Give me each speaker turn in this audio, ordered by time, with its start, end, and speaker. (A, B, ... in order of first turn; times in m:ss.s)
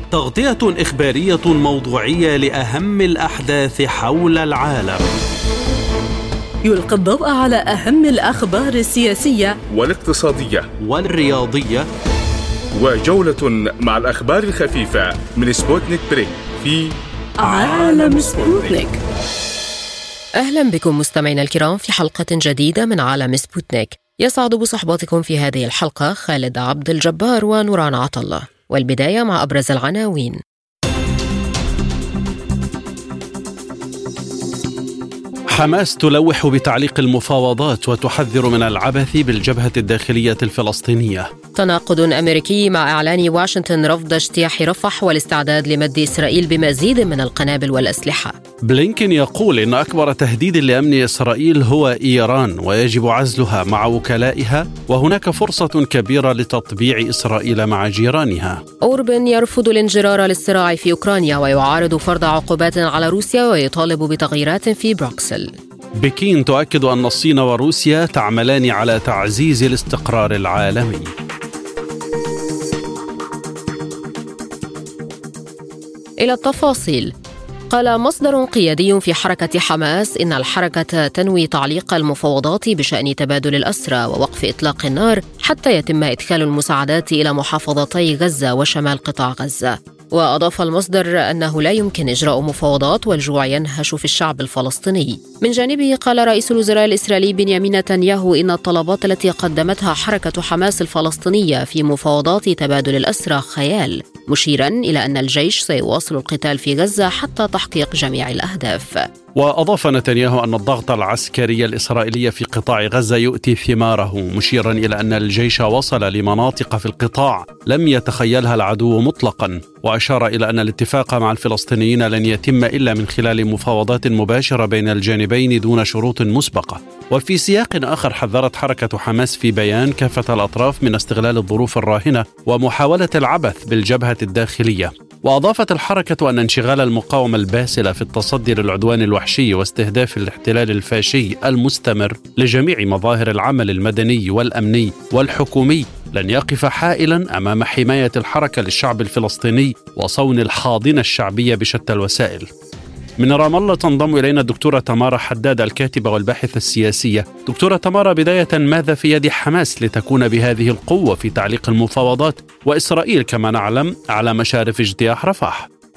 0:00.1-0:05.1 A
0:06.6-0:09.6 B
0:09.7-0:10.7 C
0:10.8-0:11.9 A
0:12.7-0:18.8 C
0:17.4-0:19.0 B
0:20.3-0:30.4 D
0:35.5-0:41.3 A
0:41.5-0:48.4 D
0:48.7-0:58.6 A
0:58.8-1:05.5 D
1:06.0-1:11.1 A
1:16.2-1:17.1 D
1:17.7-1:49.1 D
1:49.3-2:32.5 A
2:33.2-2:45.6 A